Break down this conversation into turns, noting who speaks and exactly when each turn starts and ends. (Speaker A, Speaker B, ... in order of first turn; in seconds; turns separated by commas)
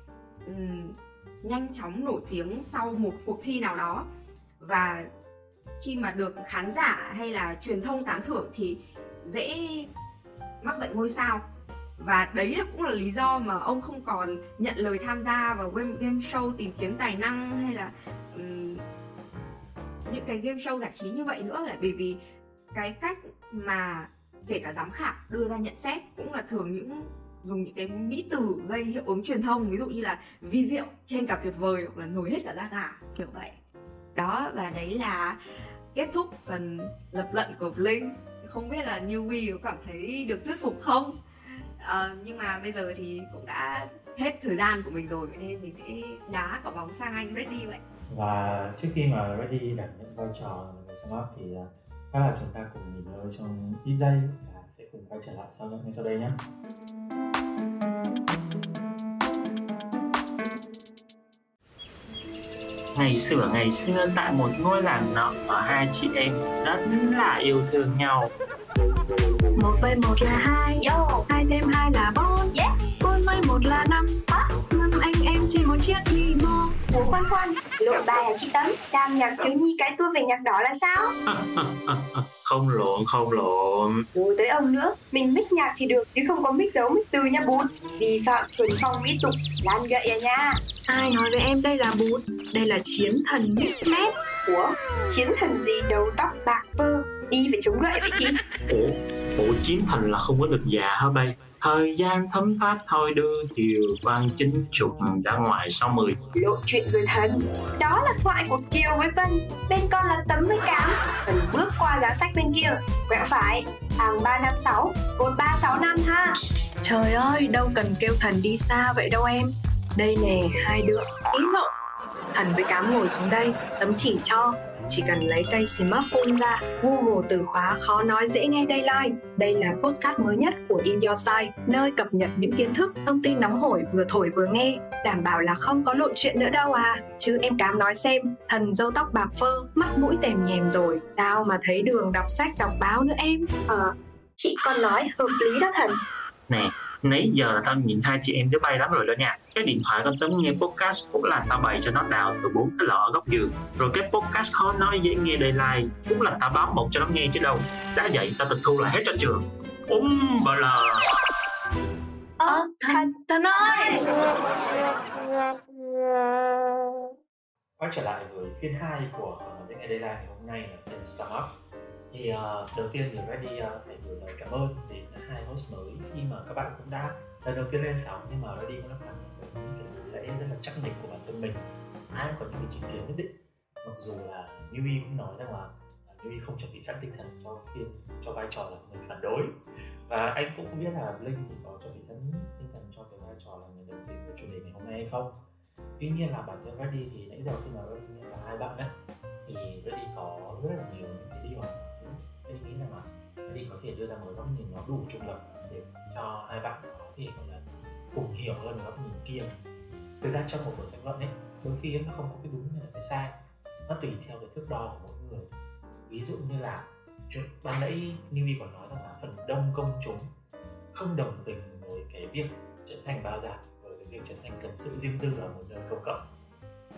Speaker A: 0.5-4.1, Speaker A: 4.6-5.1, Speaker A: 5.8-9.9, Speaker A: 10.6-11.4, Speaker A: 12.0-18.8, Speaker A: 20.1-22.2, Speaker A: 22.7-33.5, Speaker A: 34.1-35.4, Speaker A: 35.9-41.1, Speaker A: 41.8-47.8, Speaker B: 48.1-56.4, Speaker C: 63.0-68.3, Speaker D: 69.6-76.8, Speaker E: 70.8-71.3, Speaker E: 76.9-81.1, Speaker C: 81.3-84.0, Speaker E: 84.1-90.6, Speaker D: 90.9-93.8, Speaker E: 93.8-98.4, Speaker C: 98.7-106.2, Speaker E: 106.3-116.3, Speaker D: 116.8-121.7, Speaker D: 122.3-143.5, Speaker E: 143.7-146.0, Speaker C: 146.5-161.1, Speaker E: 162.4-164.0, Speaker D: 162.5-163.9, Speaker B: 167.8-171.5, Speaker B: 172.1-183.3, Speaker B: 183.8-189.5, Speaker B: 190.1-195.4, Speaker B: 196.0-198.9, Speaker B: 199.5-207.6, Speaker B: 208.1-209.5, Speaker B: 210.2-213.4, Speaker B: 213.9-215.5, Speaker B: 216.1-220.3, Speaker B: 220.9-226.2